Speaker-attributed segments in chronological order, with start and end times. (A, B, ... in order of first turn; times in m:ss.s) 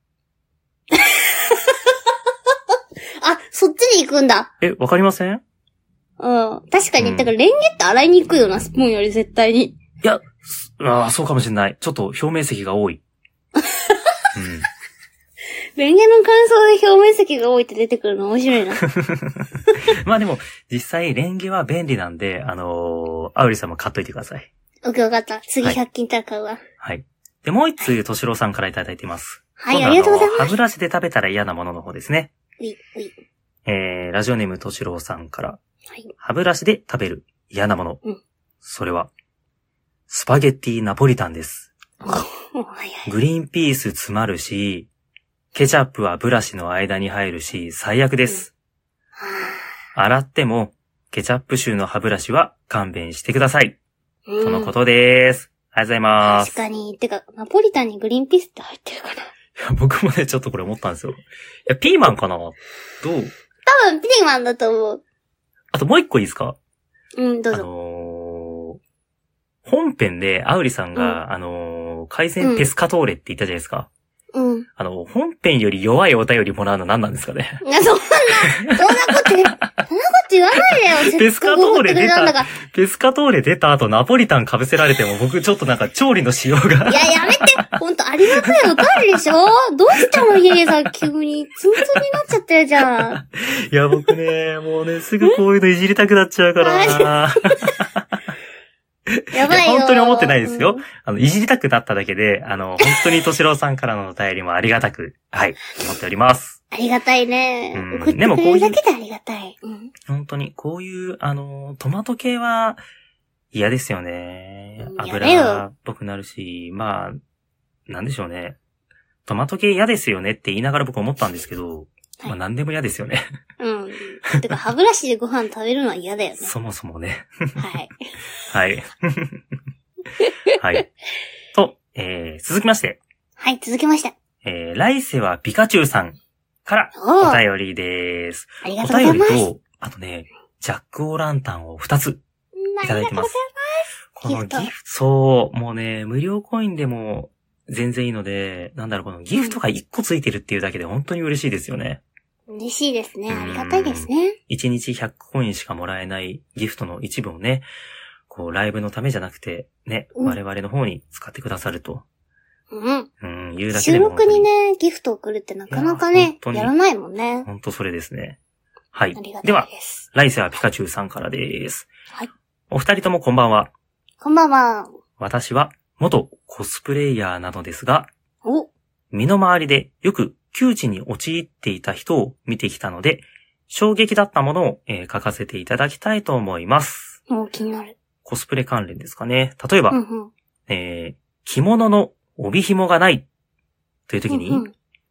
0:00.9-0:01.9 A
0:03.2-0:04.5 A
0:04.6-0:05.4 B
0:06.2-0:09.8 A
0:07.0-0:07.3 B
0:10.0-0:13.0 B
0:13.6-0:14.0 A
0:14.4-0:14.7 B
0:15.8-0:18.8 A
0:18.9-0:24.5 B
0:24.8-0:26.6 A
0:26.8-0:32.3 B
0:29.6-0:30.5 A
0:32.6-0:33.2 A
0:33.7-0:35.6 B
0:36.2-0:38.0 B
0:38.6-0:39.1 B
0:40.1-0:41.7 B
0:42.0-0:43.1 A
0:43.1-0:44.9 B
0:45.5-0:48.5 B
0:49.2-0:49.7 A
0:50.0-0:53.8 B
0:54.3-0:54.7 A
0:54.4-0:56.5 B
0:56.2-0:59.3 A
0:59.6-1:03.3 B
1:03.7-1:05.0 A
1:05.7-1:06.6 B
1:07.2-1:07.7 A
1:07.5-1:08.8 B
1:09.6-1:13.9 B
1:11.0-1:11.2 A
1:12.4-1:12.7 A
1:14.3-1:14.7 A
1:14.8-1:17.6 B
1:17.6-1:22.5 A
1:18.6-1:19.6 B
1:21.0-1:27.5 B
1:26.9-1:33.2 A
1:28.4-1:28.8 B
1:31.8-1:32.1 B
1:33.0-1:38.0 B
1:36.6-1:37.1 A
1:39.1-1:46.6 B
1:39.3-1:40.8 A
1:46.7-1:49.9 A
1:47.7-1:48.8 B
1:50.1-1:52.8 B
1:53.5-1:57.2 B
1:54.8-1:55.6 A
1:57.9-1:58.6 B
1:59.3-2:03.2 B
2:03.6-2:06.5 A
2:06.4-2:07.6 B
2:07.6-2:08.0 A
2:08.5-2:09.4 B
2:10.2-2:10.6 A
2:10.6-2:10.9 B
2:11.5-2:13.0 B
2:13.4-2:14.2 A
2:14.4-2:22.2 B
2:17.0-2:17.4 A
2:18.6-2:19.5 A
2:22.6-2:23.6 A
2:22.8-2:23.3 B
2:24.2-2:32.0 B
2:24.3-2:24.7 A
2:32.5-2:34.4 A
2:33.3-2:37.7 B
2:38.3-2:42.0 B
2:42.7-2:43.1 A
2:43.2-2:44.5 B
2:43.7-2:47.5 A
2:45.7-2:46.7 B
2:47.4-2:48.4 B
2:48.9-2:51.9 B
2:49.2-2:50.1 A
2:52.7-2:53.7 B
2:54.2-2:54.9 A
2:55.2-2:58.1 B
2:58.4-2:58.7 A
2:59.1-3:07.2 B
3:07.3-3:08.0 A
3:08.2-3:10.0 B
3:09.9-3:10.3 A
3:10.7-3:13.3 B
3:14.1-3:14.6 B
3:14.3-3:14.7 A